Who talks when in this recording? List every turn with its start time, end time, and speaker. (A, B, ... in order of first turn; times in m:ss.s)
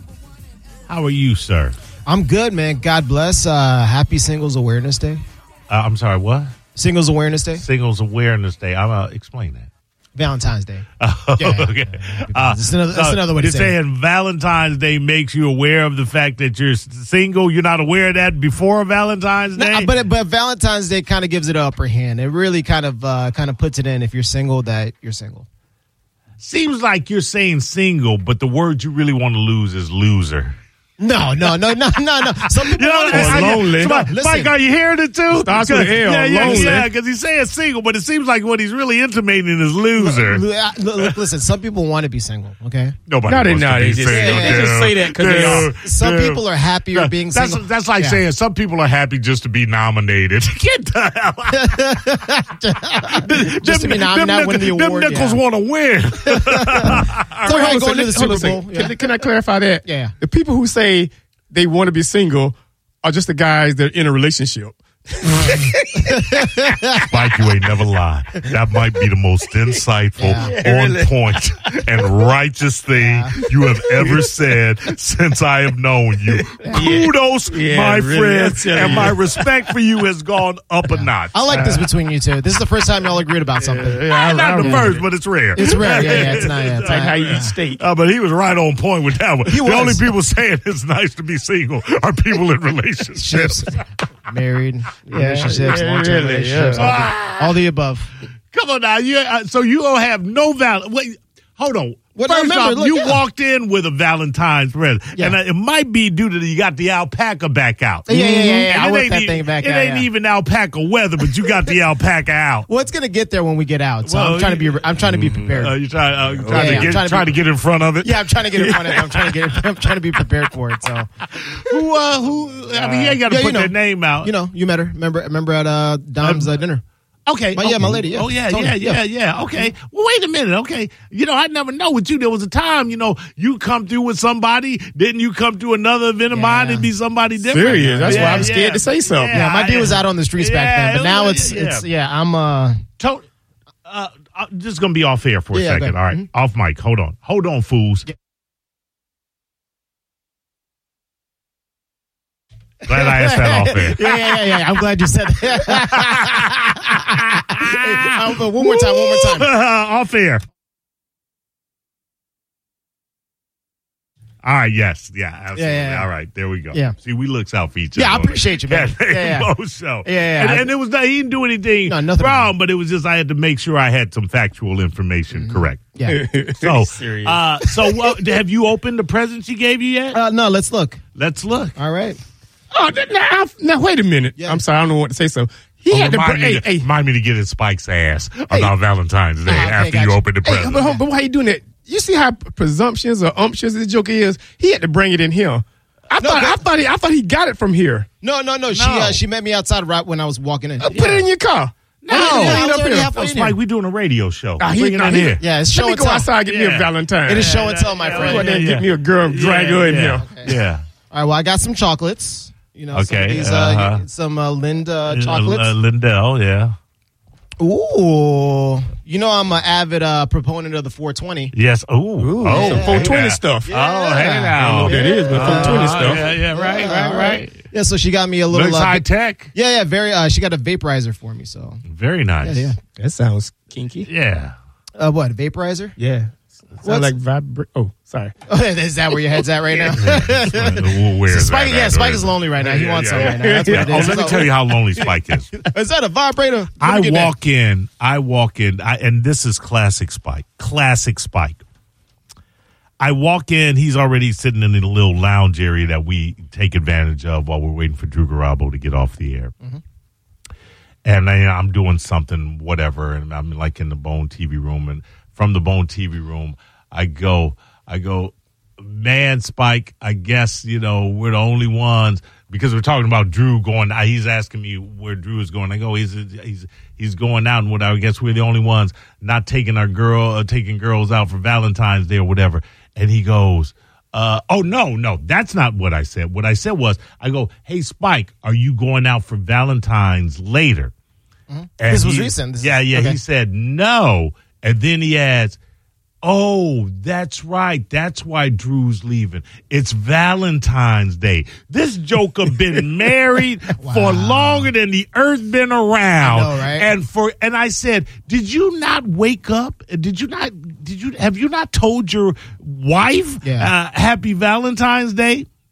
0:00.9-0:01.8 A
0:02.0-0:05.2 B
0:05.7-0:06.5 A
0:06.7-0:07.6 B
0:07.6-0:09.7 A
0:10.1-0:10.8 B
0:11.0-0:19.9 A
0:11.4-0:13.8 B
0:19.6-0:25.4 B
0:26.4-0:30.6 A
0:31.0-0:34.5 B
0:32.6-0:40.4 A
0:33.1-0:34.0 C
0:35.3-0:36.9 C
0:36.4-0:36.8 B
0:40.0-0:43.0 B
0:43.1-0:51.7 A
0:43.2-0:45.7 C
0:44.0-0:44.8 B
0:45.3-0:48.2 B
0:51.5-0:55.4 B
0:53.1-0:57.5 A
0:56.3-0:56.9 B
0:57.4-1:06.2 C
0:57.4-0:58.9 B
0:59.8-1:00.1 B
1:06.0-1:07.1 B
1:07.1-1:21.6 A
1:10.2-1:10.5 B
1:10.4-1:11.1 C
1:13.0-1:13.3 B
1:14.0-1:14.2 C
1:16.6-1:19.5 C
1:18.8-1:19.1 B
1:20.9-1:24.9 B
1:21.5-1:21.9 C
1:23.6-1:25.0 C
1:24.0-1:33.8 A
1:25.5-1:27.5 B
1:25.6-1:27.8 C
1:29.4-1:30.1 B
1:33.1-1:38.1 B
1:35.0-1:36.9 C
1:35.1-1:35.7 A
1:36.7-1:37.6 A
1:38.5-1:52.7 A
1:42.2-1:43.2 B
1:48.0-1:50.1 B
1:52.7-1:55.7 B
1:54.0-1:58.2 A
1:55.1-1:55.4 C
1:56.3-1:56.9 C
1:56.5-1:57.4 B
1:58.0-2:01.1 B
1:58.5-1:59.3 C
2:01.3-2:04.3 A
2:02.7-2:06.8 B
2:06.2-2:06.5 A
2:07.3-2:21.8 A
2:07.5-2:09.0 B
2:16.3-2:16.9 B
2:17.4-2:19.3 C
2:17.8-2:18.5 B
2:19.3-2:22.8 B
2:23.0-2:23.2 A
2:23.8-2:28.1 A
2:25.5-2:26.3 B
2:32.8-2:34.2 A
2:32.9-2:39.5 B
2:37.1-2:40.4 A
2:44.4-2:55.8 A
2:45.5-2:46.1 B
2:47.9-2:49.5 B
2:50.0-2:50.7 B
2:51.9-2:52.5 B
2:55.3-2:56.2 B
2:56.0-2:57.4 C
2:56.6-3:00.2 A
3:00.1-3:01.0 B
3:01.1-3:01.8 A
3:01.8-3:02.2 B
3:02.7-3:06.8 C
3:04.4-3:04.6 B
3:05.9-3:10.8 A
3:09.4-3:11.0 B
3:10.5-3:18.1 C
3:16.2-3:16.6 B
3:18.2-3:21.0 B
3:18.7-3:19.2 A
3:20.8-3:23.1 C
3:20.8-3:21.2 A
3:22.0-3:25.4 A
3:22.1-3:23.6 B
3:24.6-3:30.5 C
3:25.4-3:26.3 B
3:26.5-3:30.8 A
3:27.3-3:28.6 B
3:30.1-3:30.5 B
3:31.1-3:35.7 B
3:32.9-3:34.0 A
3:35.1-3:36.7 A
3:37.6-3:41.5 B
3:41.5-3:47.6 A
3:42.2-3:43.7 C
3:42.5-3:51.8 B
3:44.6-3:46.3 C
3:48.5-3:49.5 A
3:51.9-3:52.7 A
3:52.4-3:52.8 B
3:53.0-3:54.1 C
3:54.0-3:54.5 A
3:55.0-3:55.9 B
3:56.0-3:58.3 C
3:56.8-3:57.1 B
3:58.5-4:04.5 B
3:59.9-4:05.5 A
4:03.2-4:04.5 C
4:05.6-4:07.3 B
4:06.8-4:11.6 A
4:13.0-4:19.5 A
4:21.0-4:50.9 A
4:51.5-4:53.2 B
4:51.8-4:55.6 A
4:56.2-5:15.5 A
5:03.8-5:04.7 B
5:06.2-5:06.9 B
5:13.4-5:13.7 B